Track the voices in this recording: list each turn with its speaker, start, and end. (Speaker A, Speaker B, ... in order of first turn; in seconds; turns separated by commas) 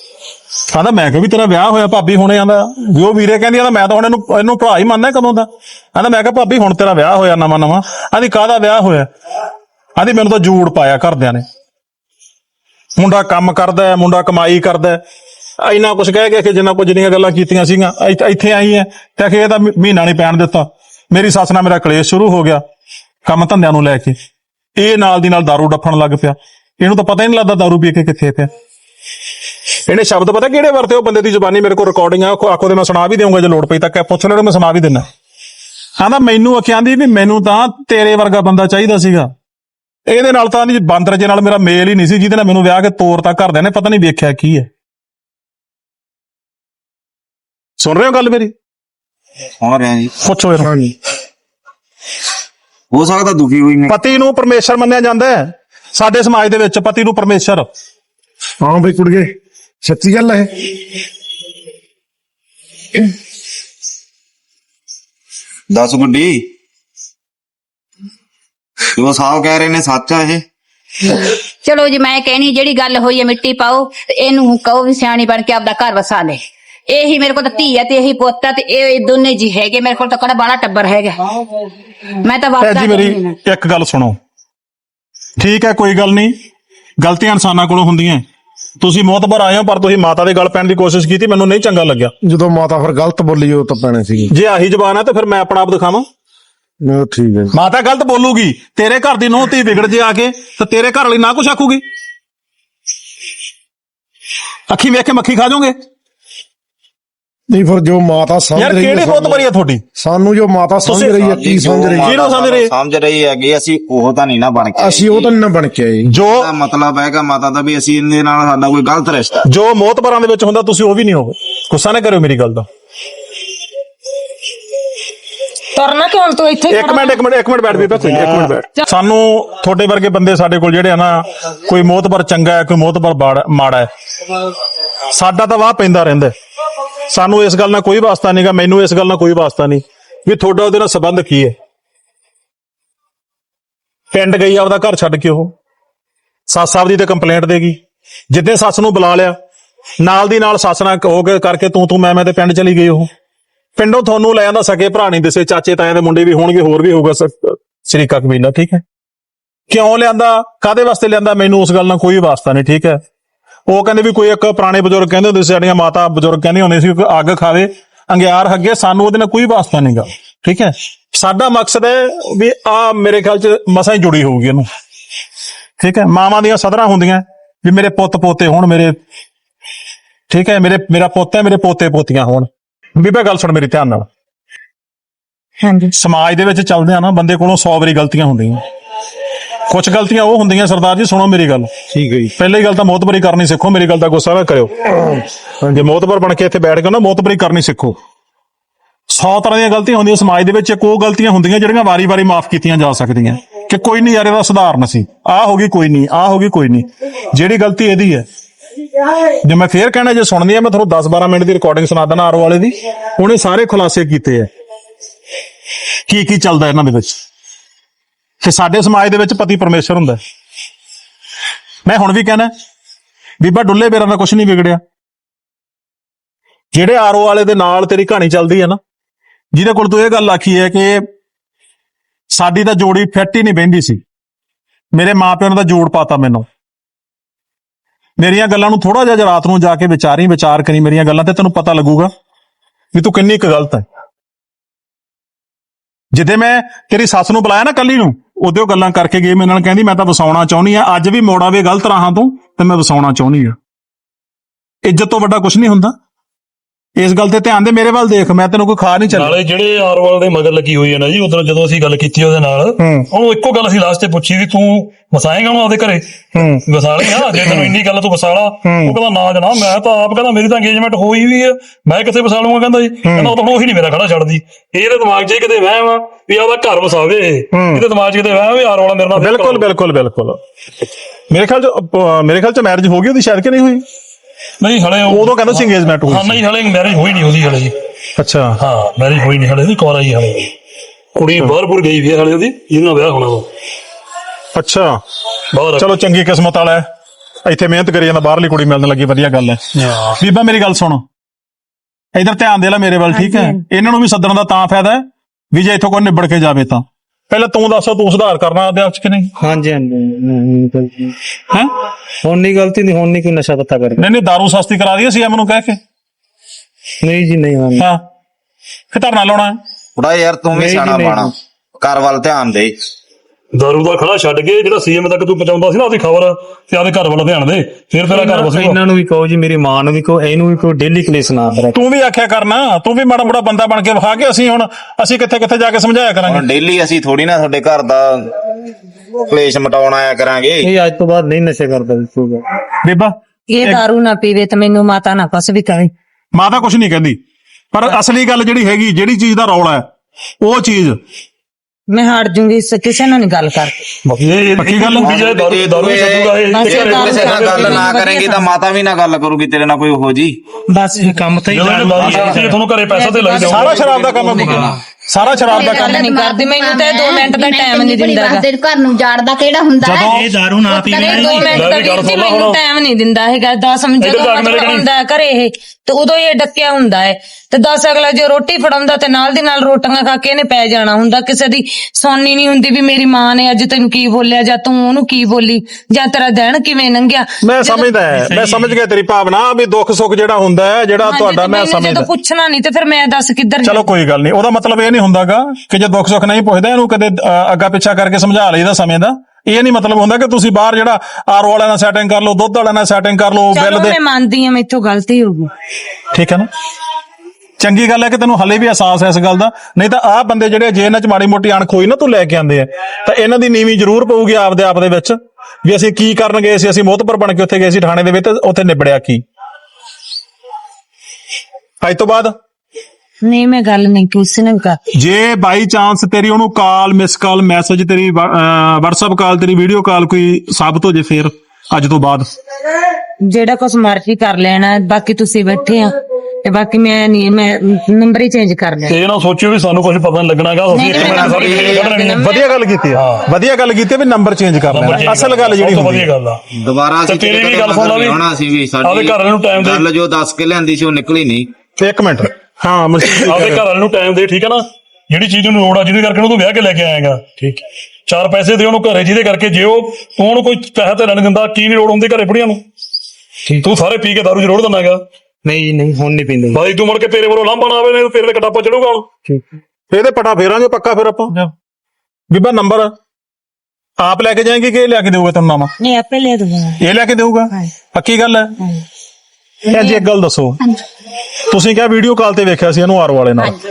Speaker A: 0.7-9.1, Speaker A: 10.0-11.4, Speaker A: 13.0-15.0, Speaker A: 15.6-22.6, Speaker A: 23.3-24.2, Speaker A: 24.8-28.5, Speaker A: 29.9-35.0, Speaker A: 36.0-39.3, Speaker A: 40.1-44.7, Speaker A: 47.8-48.5, Speaker B: 49.6-50.1, Speaker A: 50.2-50.7, Speaker C: 50.6-51.0, Speaker B: 52.9-54.0, Speaker A: 53.9-57.7, Speaker C: 58.6-59.3, Speaker C: 59.8-60.7, Speaker B: 65.7-66.5, Speaker B: 69.0-70.4, Speaker D: 71.1-81.4, Speaker D: 82.2-83.4, Speaker A: 82.6-84.2, Speaker A: 85.4-86.3, Speaker A: 87.0-88.2, Speaker A: 88.8-92.1, Speaker C: 92.2-94.3, Speaker A: 94.3-96.1, Speaker C: 96.8-97.5, Speaker A: 97.5-101.8, Speaker A: 104.7-105.8, Speaker C: 107.5-109.4, Speaker A: 108.6-109.8, Speaker C: 110.0-112.2, Speaker A: 110.9-111.2, Speaker B: 111.3-115.3, Speaker A: 112.0-112.7, Speaker C: 114.8-116.1, Speaker A: 116.1-116.5, Speaker B: 116.3-119.4, Speaker A: 119.5-122.7, Speaker E: 125.8-127.2, Speaker A: 126.7-133.9, Speaker A: 135.1-136.3, Speaker A: 137.1-141.5, Speaker A: 144.1-145.5, Speaker A: 146.5-147.8, Speaker A: 148.3-149.3, Speaker A: 150.0-153.1, Speaker A: 153.8-158.8, Speaker A: 159.7-163.0, Speaker A: 163.7-174.7, Speaker A: 175.8-179.0, Speaker A: 180.3-184.1, Speaker E: 185.6-185.9, Speaker A: 186.0-188.6, Speaker A: 189.7-191.7, Speaker F: 191.9-192.3, Speaker A: 192.4-195.2, Speaker A: 195.7-198.0, Speaker A: 199.1-208.2, Speaker A: 209.4-214.5, Speaker A: 216.1-217.2, Speaker A: 218.4-220.2, Speaker A: 221.9-222.5, Speaker A: 223.4-224.8, Speaker A: 226.7-228.8, Speaker A: 229.5-231.1, Speaker A: 232.3-234.0, Speaker A: 234.9-236.5, Speaker A: 238.2-242.1, Speaker A: 242.9-243.8, Speaker A: 246.1-253.6, Speaker A: 254.8-255.9, Speaker A: 257.0-259.4, Speaker G: 259.1-279.7, Speaker A: 262.8-263.1, Speaker A: 266.4-266.6, Speaker A: 268.6-269.0, Speaker A: 273.0-273.3, Speaker A: 277.5-277.9, Speaker A: 279.1-280.4, Speaker A: 281.3-283.8, Speaker G: 284.6-287.7, Speaker A: 285.1-286.4, Speaker A: 288.2-288.6, Speaker G: 288.6-290.5, Speaker G: 291.2-293.5, Speaker A: 294.6-295.0, Speaker G: 295.5-295.9, Speaker A: 295.8-296.8, Speaker A: 297.4-299.6, Speaker G: 299.8-300.2, Speaker A: 300.1-301.0, Speaker A: 302.1-309.3, Speaker E: 303.1-303.6, Speaker F: 309.4-311.2, Speaker F: 312.2-314.1, Speaker A: 314.0-315.8, Speaker F: 317.0-317.8, Speaker A: 317.8-318.0, Speaker A: 318.9-319.6, Speaker B: 320.0-322.8, Speaker F: 320.5-321.3, Speaker G: 323.5-328.8, Speaker F: 328.1-331.8, Speaker A: 331.7-336.4, Speaker B: 336.3-338.3, Speaker B: 339.2-340.7, Speaker F: 340.6-342.5, Speaker A: 342.8-343.8, Speaker E: 343.5-345.9, Speaker A: 346.3-347.2, Speaker A: 347.7-349.9, Speaker A: 350.4-351.0, Speaker E: 351.9-353.8, Speaker G: 354.1-357.7, Speaker A: 354.6-355.1, Speaker B: 355.0-360.4, Speaker E: 356.5-358.5, Speaker E: 360.7-361.2, Speaker F: 360.9-362.6, Speaker G: 361.5-363.9, Speaker E: 362.9-364.5, Speaker A: 363.5-366.0, Speaker B: 364.2-364.7, Speaker D: 365.2-371.7, Speaker E: 365.4-368.4, Speaker A: 369.8-370.4, Speaker F: 370.1-371.3, Speaker E: 370.8-387.9, Speaker G: 371.4-372.6, Speaker G: 374.0-374.9, Speaker A: 387.4-392.1, Speaker E: 391.0-393.9, Speaker A: 393.6-404.0, Speaker E: 403.5-405.5, Speaker A: 406.1-406.5, Speaker A: 407.6-419.2, Speaker A: 421.8-422.3, Speaker E: 423.2-424.8, Speaker A: 424.9-432.3, Speaker E: 433.2-435.9, Speaker E: 436.4-439.0, Speaker G: 438.9-442.3, Speaker E: 440.7-442.4, Speaker B: 440.9-441.9, Speaker A: 442.2-446.1, Speaker G: 442.9-443.3, Speaker G: 444.7-446.4, Speaker B: 446.5-451.5, Speaker G: 447.1-448.2, Speaker G: 448.8-449.9, Speaker A: 451.8-453.6, Speaker G: 453.2-462.6, Speaker G: 463.6-465.0, Speaker F: 465.4-466.6, Speaker G: 466.5-469.1, Speaker A: 469.9-471.3, Speaker A: 472.3-472.9, Speaker A: 474.0-475.7, Speaker E: 475.8-476.8, Speaker A: 476.8-478.6, Speaker A: 479.7-480.6, Speaker A: 481.5-483.6